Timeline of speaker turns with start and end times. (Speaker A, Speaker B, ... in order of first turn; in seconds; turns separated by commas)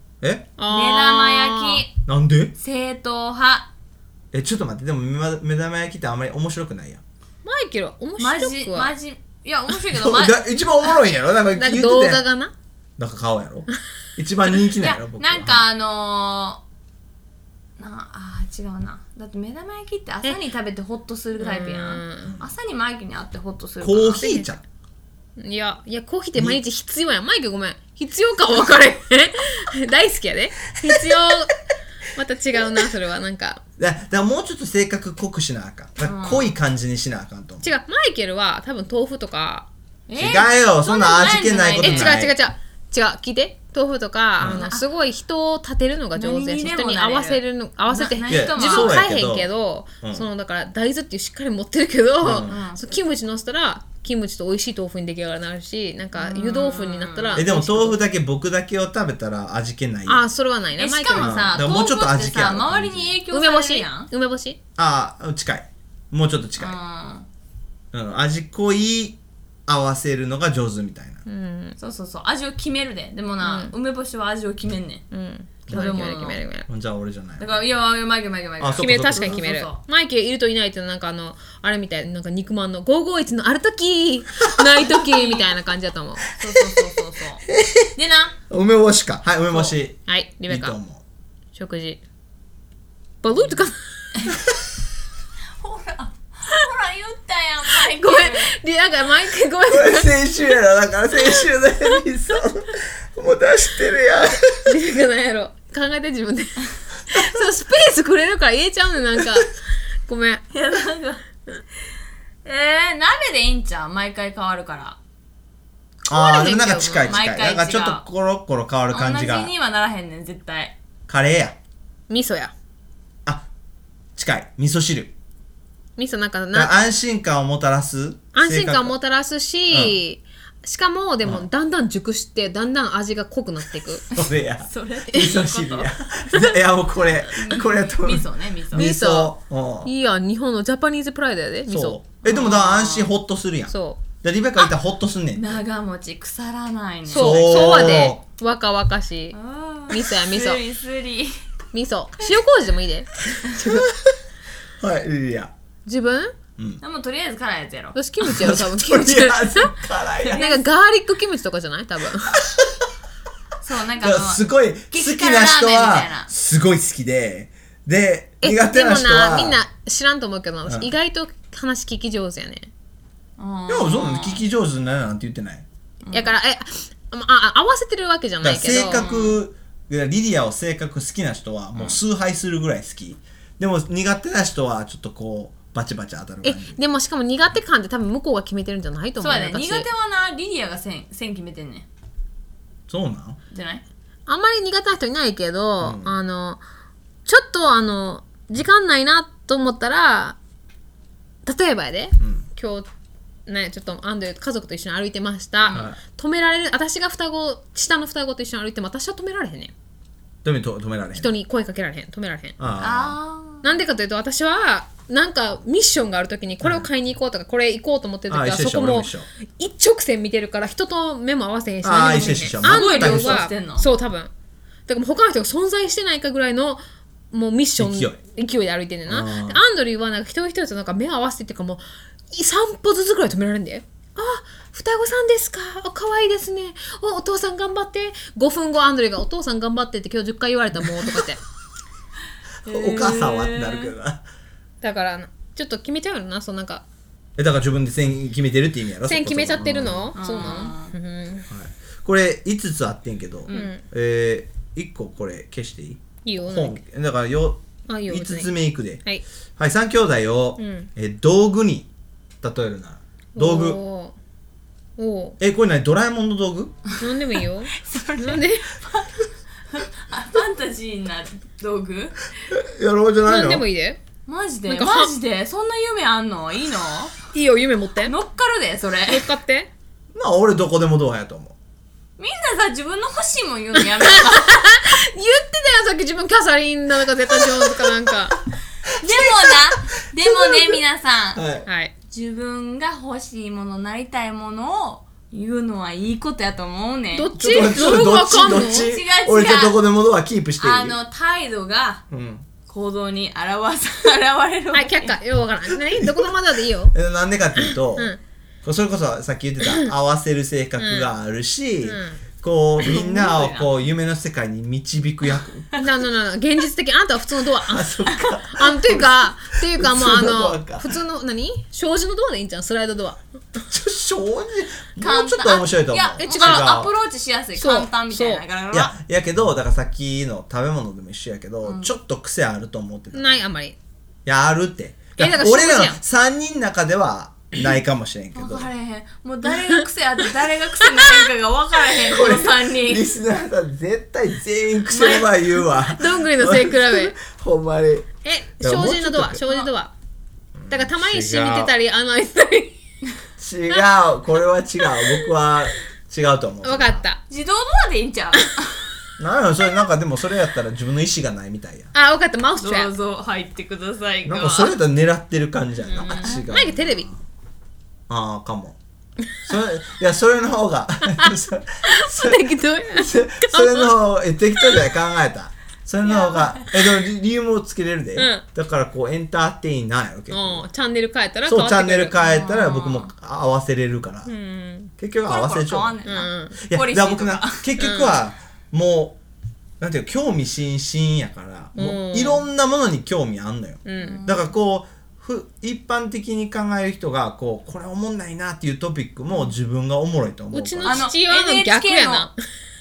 Speaker A: 0.2-0.5, Speaker B: 0.6-1.8, Speaker C: 0.7-1.9, Speaker A: 2.1-2.5, Speaker C: 2.6-3.7, Speaker A: 4.3-7.0, Speaker B: 7.5-8.9, Speaker C: 8.2-10.4, Speaker A: 9.9-12.2, Speaker B: 11.5-12.5, Speaker A: 13.0-15.7, Speaker C: 14.7-16.6, Speaker C: 17.8-24.2, Speaker B: 21.4-22.4, Speaker A: 23.8-24.6, Speaker B: 24.2-24.5, Speaker B: 25.4-31.6, Speaker B: 32.1-33.6, Speaker A: 33.8-37.7, Speaker C: 36.0-36.5, Speaker B: 37.6-39.7, Speaker C: 40.1-42.2, Speaker A: 40.2-42.3, Speaker B: 41.8-58.0, Speaker A: 44.4-44.6, Speaker C: 44.4-44.9, Speaker C: 46.1-49.0, Speaker A: 48.3-49.5, Speaker A: 52.2-52.6, Speaker C: 52.4-52.8, Speaker C: 56.2-57.5, Speaker A: 57.4-60.3, Speaker B: 60.1-61.5, Speaker C: 60.8-64.1, Speaker A: 61.1-63.2, Speaker B: 63.3-64.6, Speaker A: 64.8-66.8, Speaker C: 66.6-67.3, Speaker A: 67.9-71.2, Speaker B: 71.3-71.8, Speaker C: 71.8-75.0, Speaker B: 73.4-73.8, Speaker B: 75.1-76.7, Speaker A: 75.7-76.2, Speaker C: 75.7-76.4, Speaker A: 76.7-77.6, Speaker C: 77.4-79.8, Speaker A: 78.6-79.4, Speaker B: 78.8-86.3, Speaker C: 84.8-85.5, Speaker C: 86.3-88.3, Speaker A: 87.6-87.9, Speaker A: 88.5-91.0, Speaker B: 90.1-90.8, Speaker B: 91.5-92.0, Speaker B: 93.2-93.8, Speaker C: 95.6-98.5, Speaker B: 97.9-100.2, Speaker A: 99.7-104.7, Speaker B: 104.7-109.5, Speaker B: 110.1-110.4, Speaker C: 110.5-111.2, Speaker C: 112.5-115.0, Speaker B: 116.1-117.2, Speaker A: 116.1-119.5, Speaker C: 117.0-118.0, Speaker C: 118.9-120.8, Speaker A: 121.1-121.6, Speaker B: 122.1-122.5, Speaker A: 124.2-125.1, Speaker B: 126.0-126.8, Speaker A: 126.5-129.0, Speaker B: 128.3-134.0, Speaker A: 129.7-130.0, Speaker C: 134.1-135.9, Speaker A: 134.2-139.9, Speaker C: 137.2-138.9, Speaker B: 138.8-142.0, Speaker A: 141.7-145.6, Speaker C: 142.2-143.1, Speaker B: 143.7-144.0, Speaker C: 145.4-148.1, Speaker A: 147.1-148.2, Speaker B: 147.1-149.4, Speaker C: 149.3-151.3, Speaker B: 149.9-150.6, Speaker B: 151.7-153.8, Speaker A: 153.6-154.1, Speaker A: 154.8-155.5, Speaker B: 155.9-156.3, Speaker C: 156.8-158.0, Speaker B: 157.9-159.8, Speaker A: 158.2-160.4, Speaker C: 160.2-160.7, Speaker B: 160.3-162.4, Speaker C: 163.6-166.3, Speaker A: 164.0-169.6, Speaker B: 168.4-172.7, Speaker A: 170.7-170.9, Speaker C: 173.4-174.4, Speaker A: 173.7-175.7, Speaker C: 176.1-176.3, Speaker B: 176.1-179.1, Speaker A: 178.4-186.8, Speaker C: 178.9-179.4, Speaker C: 181.8-182.0, Speaker B: 186.4-189.9, Speaker C: 189.2-191.9, Speaker A: 192.9-193.4, Speaker C: 193.5-193.8, Speaker B: 194.3-196.6, Speaker A: 195.8-196.2, Speaker B: 197.3-200.4, Speaker B: 201.4-202.9, Speaker A: 202.2-202.4, Speaker B: 203.5-209.7, Speaker C: 205.6-205.9, Speaker A: 205.7-206.0, Speaker A: 210.4-211.3, Speaker B: 211.1-212.6, Speaker A: 212.6-213.2, Speaker C: 212.8-213.7, Speaker B: 213.6-224.3, Speaker A: 216.6-216.9, Speaker A: 218.3-219.3, Speaker A: 221.8-223.4, Speaker C: 222.6-223.9, Speaker B: 224.9-241.4, Speaker A: 227.8-228.2, Speaker A: 229.1-229.6, Speaker A: 242.7-244.2, Speaker C: 242.7-243.9, Speaker B: 244.8-246.8, Speaker A: 247.4-250.1, Speaker B: 249.1-251.5, Speaker C: 250.2-251.0, Speaker A: 251.5-259.0, Speaker B: 253.5-253.8, Speaker B: 256.2-256.8, Speaker B: 257.9-259.2, Speaker A: 259.6-261.9, Speaker B: 260.6-260.9, Speaker A: 262.4-263.8, Speaker B: 263.4-264.1, Speaker B: 265.0-265.4, Speaker A: 265.4-266.7, Speaker B: 267.0-268.7, Speaker C: 267.4-269.1, Speaker C: 269.7-272.3, Speaker A: 272.5-273.7, Speaker B: 273.2-274.0, Speaker C: 274.3-277.3, Speaker B: 274.7-275.2, Speaker B: 277.3-278.1, Speaker C: 278.0-279.3, Speaker B: 279.1-279.7, Speaker A: 280.1-281.6, Speaker C: 282.2-284.7, Speaker B: 283.8-288.4, Speaker C: 288.9-291.4, Speaker A: 289.0-289.5, Speaker A: 291.4-291.7, Speaker B: 291.7-291.9, Speaker C: 292.1-299.8, Speaker B: 297.1-298.9, Speaker A: 297.4-301.0, Speaker C: 300.6-302.0, Speaker A: 302.1-302.5, Speaker C: 302.7-305.2, Speaker B: 304.7-306.9, Speaker A: 305.7-308.1, Speaker B: 307.6-308.2, Speaker A: 308.6-315.8, Speaker B: 309.6-309.9, Speaker B: 310.8-311.1, Speaker B: 311.8-312.2, Speaker C: 312.8-313.9, Speaker B: 315.8-318.0, Speaker A: 317.7-320.9, Speaker B: 318.5-323.2, Speaker A: 323.6-326.9, Speaker C: 325.0-328.9, Speaker B: 326.3-326.7, Speaker B: 327.6-328.4, Speaker A: 328.7-333.4, Speaker C: 331.6-331.9, Speaker B: 333.1-333.8, Speaker A: 334.3-338.7, Speaker B: 335.2-336.0, Speaker C: 338.4-343.1, Speaker A: 342.0-348.1, Speaker C: 344.9-345.3, Speaker B: 345.1-347.1, Speaker B: 348.2-349.9, Speaker A: 348.6-349.4, Speaker A: 350.6-351.7, Speaker B: 350.7-352.8, Speaker A: 353.4-357.0, Speaker B: 356.6-357.2, Speaker C: 357.3-358.9, Speaker A: 359.2-361.9, Speaker B: 361.9-362.9, Speaker C: 362.6-364.8, Speaker A: 364.2-367.1, Speaker C: 365.9-366.4, Speaker B: 366.0-367.1, Speaker A: 368.1-368.8, Speaker A: 369.4-380.6, Speaker B: 371.9-373.9, Speaker C: 376.1-376.5, Speaker B: 378.2-378.4, Speaker B: 380.3-382.2, Speaker A: 381.4-384.3, Speaker C: 382.1-383.1, Speaker B: 384.3-384.9, Speaker A: 385.0-386.0, Speaker C: 385.3-387.7, Speaker B: 386.1-386.6, Speaker A: 386.6-389.2, Speaker B: 387.8-388.3, Speaker A: 389.8-401.1, Speaker B: 391.8-392.5, Speaker B: 393.9-394.2, Speaker C: 394.0-394.5, Speaker B: 400.5-402.4, Speaker C: 400.8-402.3